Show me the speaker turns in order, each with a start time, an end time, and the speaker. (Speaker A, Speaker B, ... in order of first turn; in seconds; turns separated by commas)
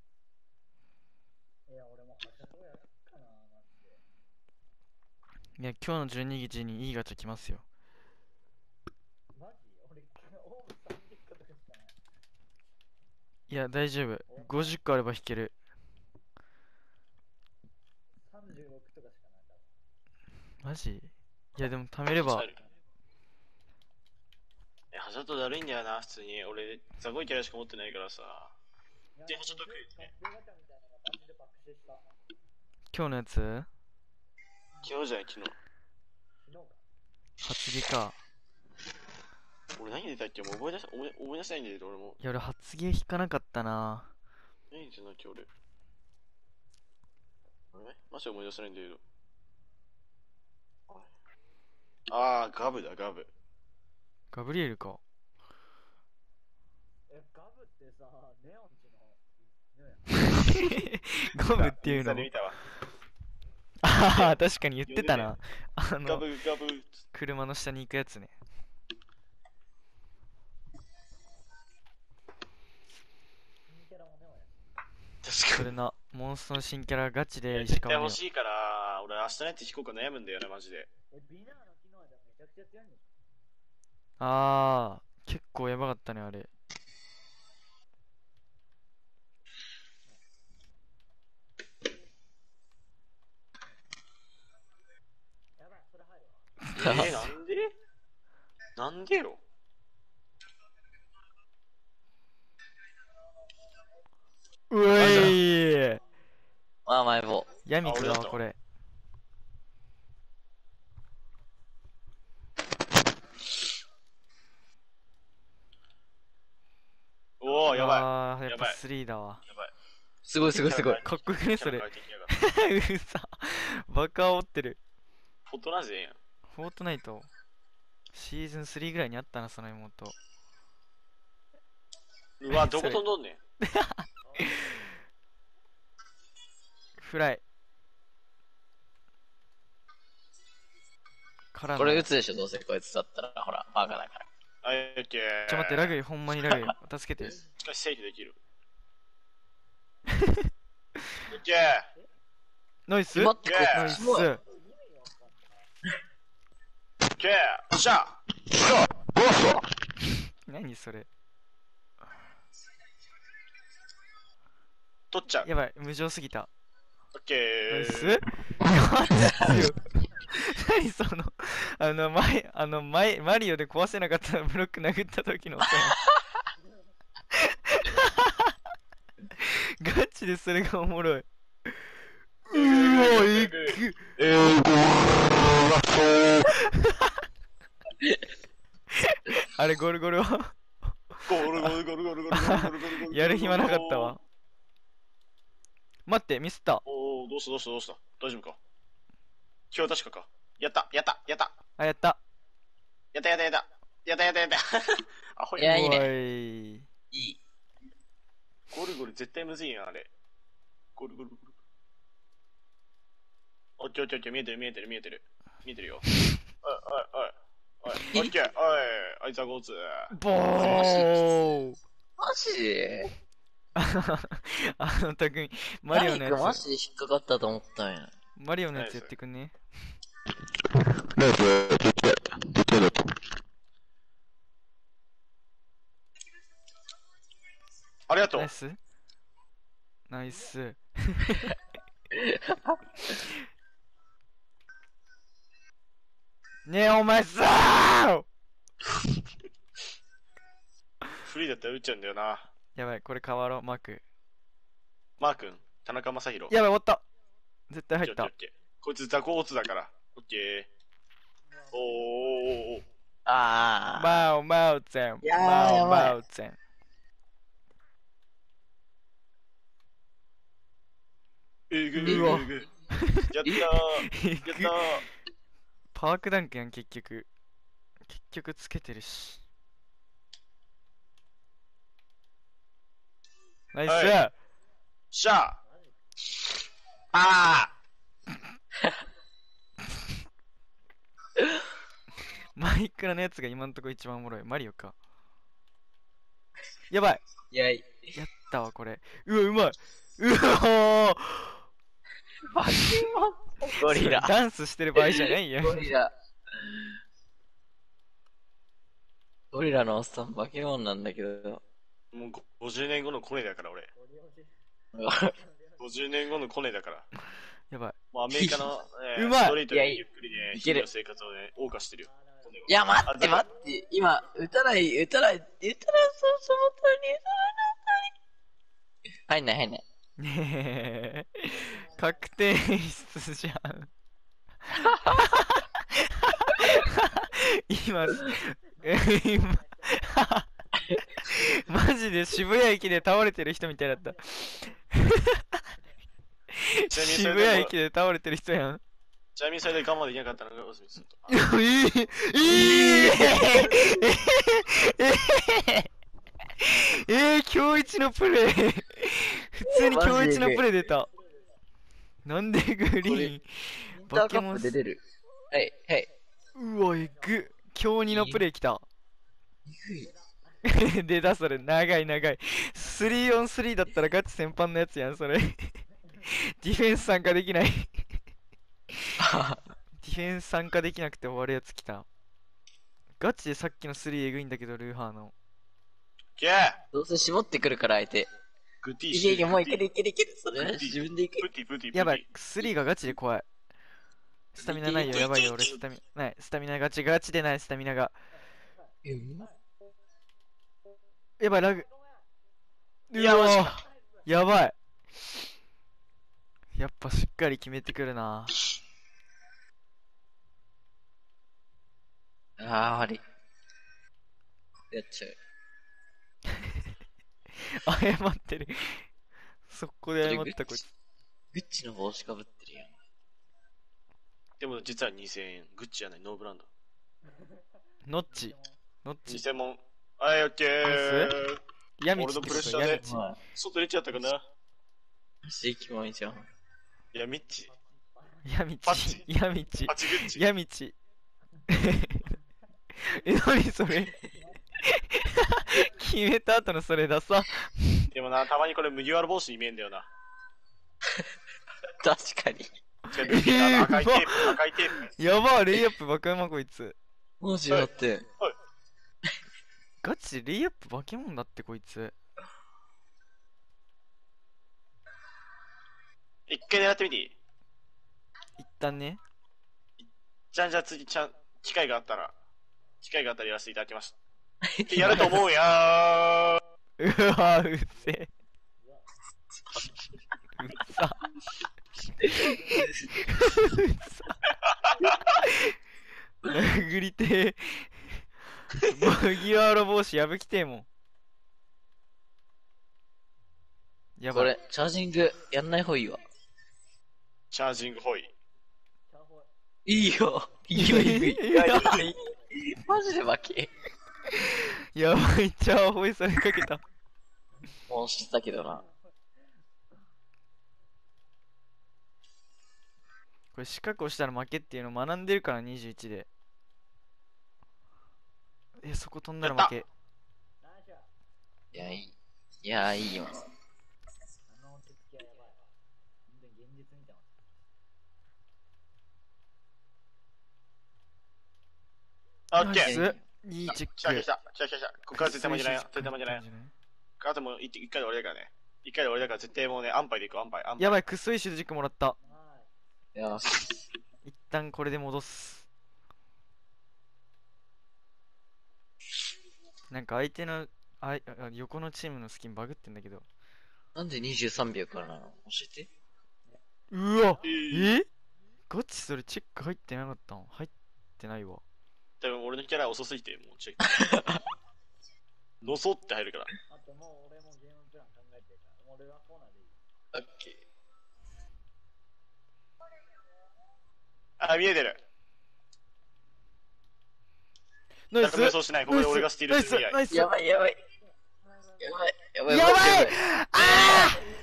Speaker A: 1.7-4.0, Speaker B: 5.6-7.6, Speaker A: 9.3-11.9, Speaker B: 13.5-15.5, Speaker A: 14.3-14.8, Speaker A: 18.2-19.7, Speaker B: 20.6-22.5, Speaker C: 22.1-22.6, Speaker C: 24.9-28.5, Speaker A: 29.1-32.0, Speaker C: 29.3-30.1, Speaker B: 32.9-33.7, Speaker C: 34.8-35.5, Speaker A: 36.5-36.8, Speaker B: 37.4-38.2, Speaker C: 39.8-42.2, Speaker B: 42.2-44.1, Speaker C: 44.7-45.5, Speaker C: 47.7-49.0, Speaker C: 52.1-53.3, Speaker B: 54.3-55.0, Speaker A: 57.1-60.8, Speaker B: 60.3-62.3, Speaker C: 61.5-62.5, Speaker B: 63.8-66.2, Speaker C: 64.1-65.4, Speaker C: 66.0-66.9, Speaker B: 67.1-68.3, Speaker A: 73.7-74.5, Speaker C: 75.2-75.7, Speaker B: 75.5-78.2, Speaker C: 77.5-80.9, Speaker A: 81.1-83.1, Speaker B: 84.2-86.5, Speaker A: 95.6-96.7, Speaker C: 96.7-97.7, Speaker D: 96.8-97.3, Speaker C: 98.8-99.4, Speaker B: 104.7-106.0, Speaker C: 104.9-105.4, Speaker D: 106.8-107.5, Speaker B: 107.7-108.5, Speaker C: 107.8-108.4, Speaker C: 117.4-118.8, Speaker B: 117.7-119.4, Speaker D: 120.2-121.0, Speaker C: 120.5-122.3, Speaker B: 120.5-124.8, Speaker C: 125.5-126.2, Speaker B: 126.5-127.3, Speaker B: 128.1-130.1, Speaker C: 132.4-133.4, Speaker B: 132.5-133.0, Speaker B: 133.6-134.9, Speaker A: 134.2-134.6, Speaker B: 137.0-137.4, Speaker B: 141.5-142.1, Speaker D: 141.8-144.2, Speaker C: 144.6-145.9, Speaker B: 145.5-147.4, Speaker D: 146.4-146.7, Speaker C: 147.5-148.3, Speaker C: 151.3-151.9, Speaker B: 152.9-154.4, Speaker D: 153.1-154.3, Speaker C: 153.4-154.1, Speaker A: 154.3-155.7, Speaker C: 157.2-158.9, Speaker B: 160.4-161.1, Speaker C: 165.1-165.5, Speaker B: 165.4-166.5, Speaker C: 167.1-168.2, Speaker B: 167.7-176.0, Speaker B: 177.3-178.5, Speaker B: 179.4-181.7, Speaker B: 182.5-184.1, Speaker C: 182.5-186.4, Speaker B: 186.4-187.2, Speaker B: 188.9-190.5, Speaker B: 191.1-191.7, Speaker C: 191.3-194.2, Speaker B: 192.3-194.2, Speaker B: 196.1-196.8, Speaker C: 196.8-198.6, Speaker C: 199.7-201.5, Speaker B: 201.8-202.2, Speaker C: 203.1-205.8, Speaker D: 205.6-206.1, Speaker B: 205.6-206.9, Speaker D: 207.1-207.4, Speaker C: 208.7-210.1, Speaker C: 210.9-211.5, Speaker C: 213.8-216.1, Speaker C: 216.6-220.9, Speaker D: 218.0-218.3, Speaker B: 220.1-221.8, Speaker D: 220.5-221.4, Speaker D: 222.2-223.1, Speaker B: 223.8-226.6, Speaker D: 225.9-228.1, Speaker B: 228.4-229.5, Speaker C: 228.7-229.1, Speaker C: 238.1-238.5, Speaker B: 238.3-238.8, Speaker B: 240.1-241.6, Speaker D: 242.1-243.1, Speaker B: 246.7-248.2, Speaker C: 251.2-252.5, Speaker B: 252.8-254.0, Speaker C: 255.2-256.6, Speaker B: 256.5-257.0, Speaker B: 257.7-258.3, Speaker C: 258.0-260.7, Speaker A: 261.5-262.6, Speaker C: 261.7-262.8, Speaker D: 263.2-264.3, Speaker B: 263.9-266.6, Speaker D: 265.2-266.2, Speaker C: 271.7-272.7, Speaker D: 272.0-272.4, Speaker B: 272.0-274.9, Speaker C: 273.3-275.0, Speaker B: 275.9-277.3, Speaker B: 278.1-279.4, Speaker B: 283.7-284.3, Speaker C: 283.8-284.2, Speaker C: 285.1-285.6, Speaker A: 285.6-285.9, Speaker C: 287.1-287.7, Speaker D: 291.4-291.6, Speaker B: 292.5-294.9, Speaker B: 296.9-297.2, Speaker D: 297.5-298.1, Speaker B: 298.1-301.6, Speaker D: 302.4-304.4, Speaker B: 303.8-305.9, Speaker D: 304.9-307.0, Speaker D: 309.5-311.6, Speaker C: 312.1-313.9, Speaker A: 313.9-316.1, Speaker D: 314.9-315.3, Speaker C: 315.8-317.1, Speaker B: 317.7-317.9, Speaker C: 318.1-323.4, Speaker D: 318.3-318.7, Speaker B: 319.1-319.6, Speaker D: 319.6-320.9, Speaker A: 322.0-324.2, Speaker D: 322.7-328.1, Speaker D: 329.3-329.8, Speaker B: 330.2-333.9, Speaker A: 331.7-332.2, Speaker B: 334.7-344.2, Speaker A: 338.8-340.2, Speaker A: 344.1-344.8, Speaker B: 344.9-345.5, Speaker B: 346.5-348.8, Speaker C: 346.9-347.7, Speaker C: 349.4-351.3, Speaker B: 351.3-355.9, Speaker D: 352.4-354.0, Speaker B: 356.6-361.1, Speaker D: 359.6-360.6, Speaker A: 361.1-361.5, Speaker B: 362.2-364.7, Speaker D: 363.0-363.3, Speaker D: 363.9-365.0, Speaker D: 365.5-366.1, Speaker B: 366.6-368.9, Speaker A: 366.9-367.4, Speaker D: 368.1-368.4, Speaker D: 369.6-370.1, Speaker B: 370.6-377.9, Speaker D: 379.2-379.6, Speaker B: 380.0-382.1, Speaker B: 383.2-385.3, Speaker C: 386.4-386.8, Speaker D: 386.9-388.3, Speaker C: 388.8-389.8, Speaker D: 389.1-391.5, Speaker C: 390.5-392.7, Speaker B: 391.9-393.4, Speaker B: 394.5-398.2, Speaker D: 394.6-395.3, Speaker C: 395.0-395.8, Speaker D: 399.0-399.5, Speaker B: 401.4-401.8, Speaker A: 401.5-402.2, Speaker B: 403.1-404.7, Speaker C: 403.1-403.8, Speaker A: 403.9-404.2, Speaker B: 406.7-408.6, Speaker D: 412.6-413.2, Speaker D: 414.9-415.4, Speaker B: 416.5-416.9, Speaker B: 417.6-419.1, Speaker B: 419.7-420.9, Speaker D: 420.2-420.6, Speaker D: 421.5-422.9, Speaker C: 424.6-426.7, Speaker A: 427.3-427.6, Speaker B: 428.0-429.4, Speaker A: 428.3-428.7, Speaker C: 429.3-431.6, Speaker B: 430.8-431.4, Speaker B: 432.0-433.1, Speaker C: 432.1-434.4, Speaker D: 432.9-433.4, Speaker D: 435.4-436.5, Speaker C: 437.1-437.7, Speaker A: 437.7-438.5, Speaker B: 438.4-440.9, Speaker C: 438.8-439.2, Speaker C: 439.9-440.4, Speaker B: 441.7-442.3, Speaker B: 443.0-444.2, Speaker B: 444.8-448.1, Speaker C: 448.1-450.1, Speaker D: 452.0-452.7, Speaker B: 453.1-454.6, Speaker C: 453.1-455.1, Speaker B: 455.2-456.9, Speaker D: 457.4-458.2, Speaker C: 457.7-458.5, Speaker B: 460.0-462.1, Speaker C: 466.5-467.3, Speaker B: 468.6-469.2, Speaker C: 470.0-472.3, Speaker C: 473.0-474.1, Speaker D: 474.6-475.4, Speaker C: 474.9-476.6, Speaker B: 477.0-478.3, Speaker B: 480.6-481.3, Speaker D: 482.2-483.3, Speaker B: 482.4-484.4, Speaker A: 482.4-482.9, Speaker B: 485.4-485.8, Speaker B: 486.4-490.9, Speaker B: 494.2-494.6, Speaker D: 494.3-496.2, Speaker C: 497.5-498.3, Speaker A: 499.1-499.5, Speaker D: 499.9-503.7, Speaker B: 500.7-502.1, Speaker B: 504.3-506.8, Speaker D: 507.9-508.8, Speaker A: 508.7-508.9, Speaker B: 513.5-516.3, Speaker B: 518.8-519.9, Speaker C: 519.4-519.8, Speaker A: 520.6-521.1, Speaker D: 521.7-523.5, Speaker A: 524.5-525.6, Speaker A: 526.3-527.4, Speaker C: 532.5-533.0, Speaker B: 532.6-534.3, Speaker D: 532.7-533.2, Speaker C: 533.7-536.4, Speaker B: 535.2-536.7, Speaker C: 537.2-541.0, Speaker B: 540.8-542.1, Speaker A: 542.2-542.7, Speaker D: 543.1-543.8, Speaker B: 544.2-545.6, Speaker B: 549.9-553.2, Speaker D: 553.9-555.9, Speaker B: 556.9-558.1, Speaker A: 557.2-557.5, Speaker C: 557.4-558.0, Speaker B: 558.7-561.6, Speaker C: 562.2-564.2, Speaker D: 564.0-564.4, Speaker C: 565.6-566.5, Speaker A: 566.7-569.8, Speaker D: 570.1-570.6, Speaker C: 574.4-575.0, Speaker B: 578.1-580.3, Speaker C: 578.2-580.0, Speaker D: 580.1-580.8, Speaker A: 581.4-581.9, Speaker D: 581.8-584.1, Speaker B: 582.5-584.2